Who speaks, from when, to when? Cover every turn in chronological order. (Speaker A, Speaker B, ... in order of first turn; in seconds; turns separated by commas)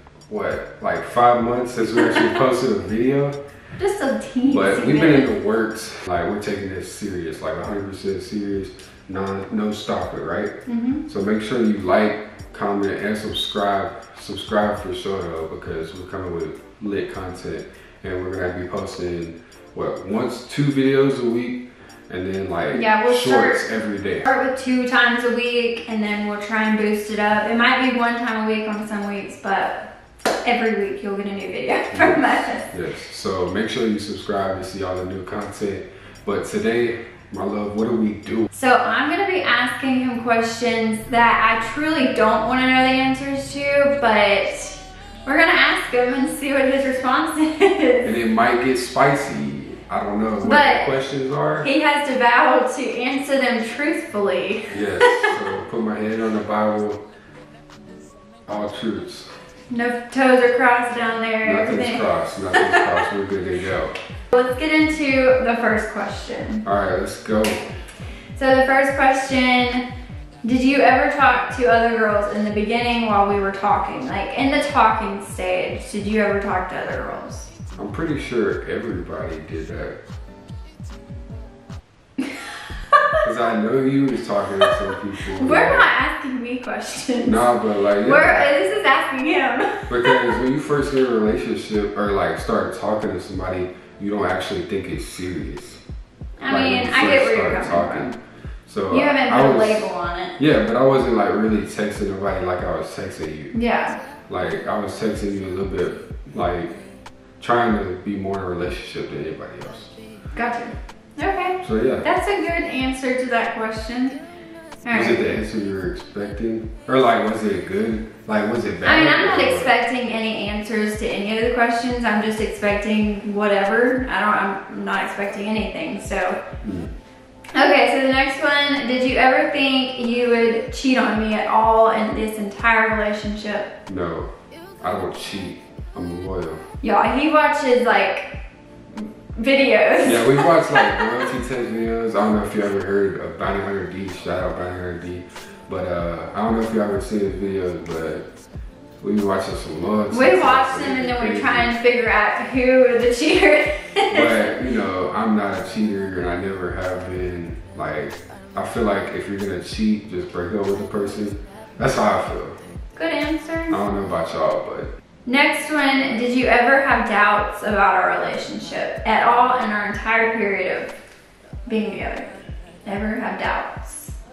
Speaker A: 0.3-3.4, Speaker B: 2.0-2.3, Speaker B: 3.8-5.3, Speaker A: 4.5-10.5, Speaker B: 10.7-11.0, Speaker A: 11.1-24.3, Speaker B: 22.7-23.6, Speaker B: 24.3-29.8, Speaker B: 30.4-32.7, Speaker A: 31.9-38.5, Speaker B: 38.5-48.1, Speaker A: 48.0-51.7, Speaker B: 50.4-50.9, Speaker B: 51.6-55.3, Speaker A: 54.7-57.0, Speaker A: 58.5-59.3, Speaker B: 59.7-63.0, Speaker A: 61.4-63.9, Speaker B: 64.3-66.6, Speaker A: 66.7-67.6, Speaker B: 68.4-69.9, Speaker B: 70.4-77.5, Speaker A: 77.8-80.0, Speaker B: 82.3-83.0, Speaker A: 83.2-85.9, Speaker B: 85.4-87.5, Speaker A: 87.2-88.5, Speaker B: 88.0-90.3, Speaker A: 89.9-95.8, Speaker B: 96.4-98.2, Speaker A: 96.5-98.1, Speaker A: 98.7-103.5, Speaker B: 98.9-100.3, Speaker B: 103.5-104.0, Speaker A: 104.3-106.8, Speaker A: 107.4-109.9, Speaker B: 110.3-114.2, Speaker A: 111.6-112.0, Speaker B: 114.8-115.3, Speaker A: 114.9-119.7, Speaker B: 118.8-126.4, Speaker A: 126.6-126.9, Speaker B: 127.6-133.7, Speaker A: 133.9-134.3, Speaker A: 134.8-136.6, Speaker B: 136.8-138.3, Speaker B: 139.0-141.1, Speaker A: 140.0-148.3, Speaker A: 149.0-151.7, Speaker B: 150.1-154.5, Speaker A: 154.1-162.6, Speaker B: 163.0-163.8, Speaker A: 163.7-164.9, Speaker B: 165.3-170.9, Speaker B: 171.7-172.3, Speaker B: 172.8-174.2